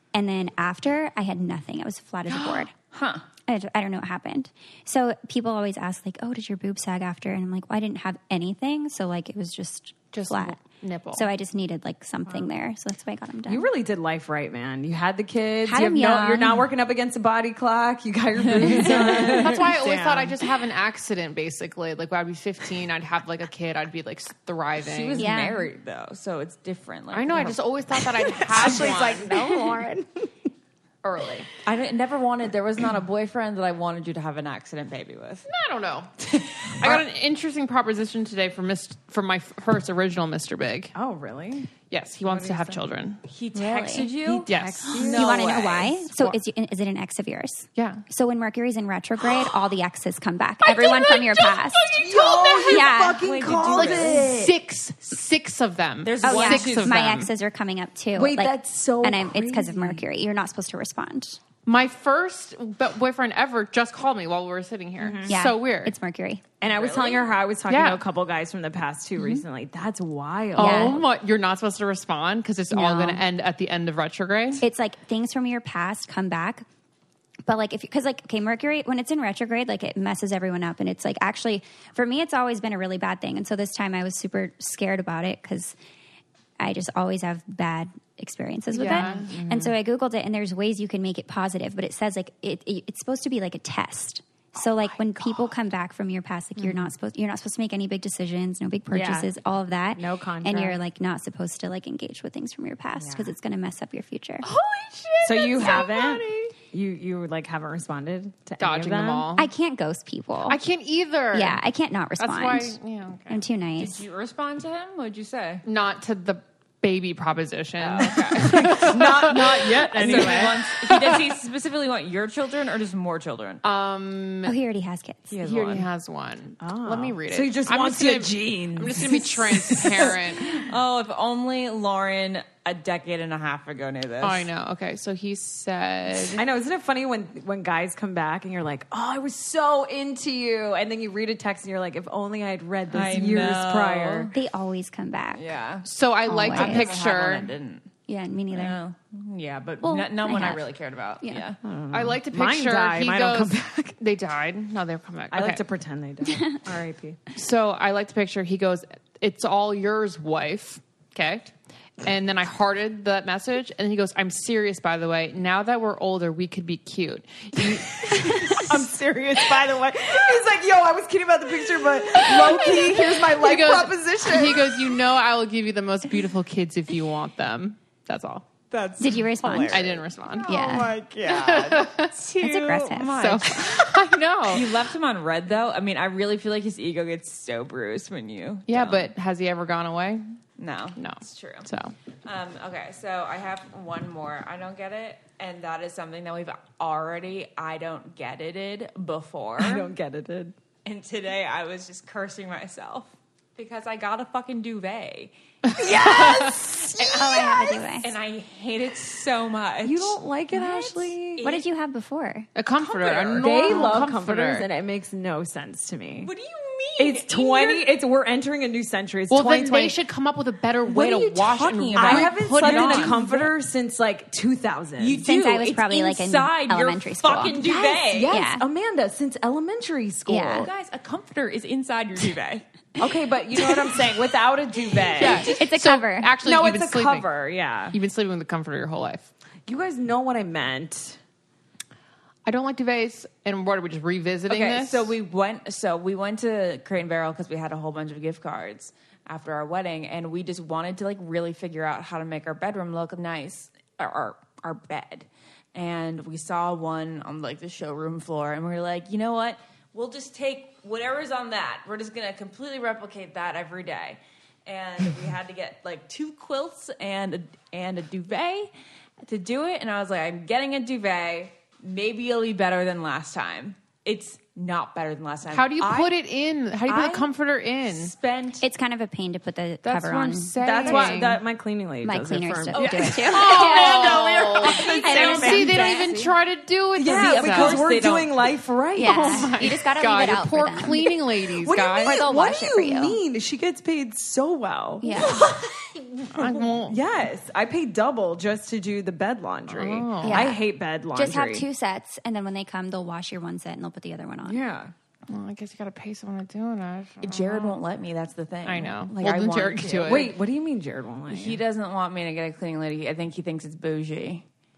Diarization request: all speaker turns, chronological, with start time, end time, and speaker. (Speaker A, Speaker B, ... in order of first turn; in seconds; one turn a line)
Speaker A: 0.1-2.7
Speaker B: 2.3-3.2
Speaker A: 3.5-10.6
Speaker C: 10.1-11.3
Speaker A: 11.1-13.7
Speaker D: 13.5-20.5
Speaker A: 15.7-16.6
Speaker B: 18.6-19.4
Speaker C: 18.8-25.3
Speaker B: 24.8-27.6
Speaker A: 25.2-25.7
Speaker C: 27.1-29.6
Speaker D: 28.0-30.3
Speaker B: 28.4-29.1
Speaker C: 31.0-31.5
Speaker B: 31.6-35.5
Speaker C: 35.5-36.1
Speaker B: 36.2-37.0
Speaker C: 36.7-40.9
Speaker D: 41.0-41.7
Speaker C: 41.9-43.2
Speaker D: 42.3-42.8
Speaker B: 43.2-46.1
Speaker A: 43.5-44.1
Speaker D: 44.2-45.5
Speaker C: 44.5-45.0
Speaker A: 45.1-51.8
Speaker C: 47.8-48.0
Speaker C: 50.7-52.0
Speaker D: 52.0-54.4
Speaker B: 52.0-54.6
Speaker A: 52.7-53.2
Speaker C: 53.6-57.3
Speaker B: 56.0-57.0
Speaker A: 56.2-61.4
Speaker D: 58.1-60.0
Speaker C: 61.7-66.0
Speaker D: 65.0-65.3
Speaker A: 65.3-66.4
Speaker D: 66.6-71.1
Speaker B: 66.6-67.4
Speaker C: 67.7-68.0
Speaker A: 70.6-71.0
Speaker C: 70.6-74.6
Speaker A: 72.7-73.2
Speaker A: 74.6-76.7
Speaker A: 77.5-85.8
Speaker A: 86.6-104.5
Speaker C: 88.7-89.3
Speaker D: 88.8-89.8
Speaker D: 96.6-96.9
Speaker D: 98.9-99.3
Speaker D: 100.0-100.8
Speaker D: 103.0-103.3
Speaker C: 104.4-106.5
Speaker D: 105.2-109.3
Speaker C: 108.6-109.5
Speaker A: 109.4-110.6
Speaker C: 110.5-111.6
Speaker A: 111.3-112.8
Speaker C: 112.2-113.4
Speaker A: 113.3-114.0
Speaker B: 113.8-115.6
Speaker C: 115.7-121.2
Speaker B: 117.8-119.4
Speaker D: 118.3-120.5
Speaker B: 119.9-123.6
Speaker C: 123.6-124.5
Speaker A: 124.5-125.3
Speaker B: 125.3-125.9
Speaker C: 125.4-130.7
Speaker D: 126.6-130.2
Speaker B: 130.3-134.5
Speaker C: 134.2-136.4
Speaker D: 136.3-144.3
Speaker B: 142.9-144.3
Speaker A: 144.3-145.5
Speaker B: 145.3-147.9
Speaker C: 145.8-147.5
Speaker A: 146.3-146.9
Speaker A: 148.1-148.8
Speaker B: 148.5-151.6
Speaker A: 149.8-150.6
Speaker D: 151.6-153.9
Speaker C: 151.9-155.6
Speaker D: 155.3-157.2
Speaker A: 156.3-156.6
Speaker C: 157.3-168.8
Speaker D: 167.6-175.0
Speaker C: 172.3-172.8
Speaker C: 173.3-178.5
Speaker B: 178.7-189.1
Speaker A: 179.0-179.9
Speaker C: 179.6-180.5
Speaker A: 180.5-180.9
Speaker D: 180.5-180.9
Speaker C: 181.3-182.1
Speaker A: 182.3-183.2
Speaker C: 183.1-184.8
Speaker C: 188.7-190.2
Speaker B: 190.6-191.7
Speaker C: 191.0-191.9
Speaker B: 192.2-199.9
Speaker D: 199.6-200.6
Speaker B: 200.8-211.6
Speaker C: 205.7-206.4
Speaker D: 205.8-207.2
Speaker A: 207.0-208.1
Speaker D: 209.8-211.6
Speaker A: 211.4-212.5
Speaker C: 212.6-214.7
Speaker B: 212.8-214.0
Speaker D: 213.3-216.3
Speaker B: 216.2-217.9
Speaker D: 217.0-220.0
Speaker C: 219.3-223.2
Speaker B: 220.9-223.4
Speaker D: 221.9-225.2
Speaker B: 225.0-228.4
Speaker A: 225.2-227.6
Speaker D: 227.5-230.7
Speaker A: 228.3-228.7
Speaker A: 230.3-230.7
Speaker B: 230.5-232.7
Speaker D: 233.0-235.5
Speaker B: 235.1-235.5
Speaker C: 235.2-237.3
Speaker A: 235.5-236.3
Speaker D: 236.4-238.0
Speaker C: 237.9-239.3
Speaker D: 239.7-241.2
Speaker C: 242.4-245.2
Speaker B: 244.5-276.2
Speaker C: 275.5-278.1
Speaker B: 276.9-277.3
Speaker B: 277.9-278.7
Speaker A: 278.6-281.1
Speaker C: 279.9-281.4
Speaker D: 280.6-285.8
Speaker A: 282.0-284.1
Speaker B: 282.7-286.4
Speaker C: 283.3-287.8
Speaker A: 285.0-286.1
Speaker D: 287.0-289.5
Speaker B: 287.0-288.6
Speaker A: 289.0-291.1
Speaker C: 289.0-292.2
Speaker D: 291.5-301.6
Speaker A: 292.0-293.2
Speaker A: 295.0-295.5
Speaker B: 295.2-295.5
Speaker C: 296.3-297.0
Speaker C: 299.7-300.5
Speaker A: 300.2-304.6
Speaker D: 304.4-304.9
Speaker C: 305.3-307.8
Speaker B: 307.2-310.4
Speaker C: 308.6-310.3
Speaker D: 310.0-311.6
Speaker B: 311.3-314.4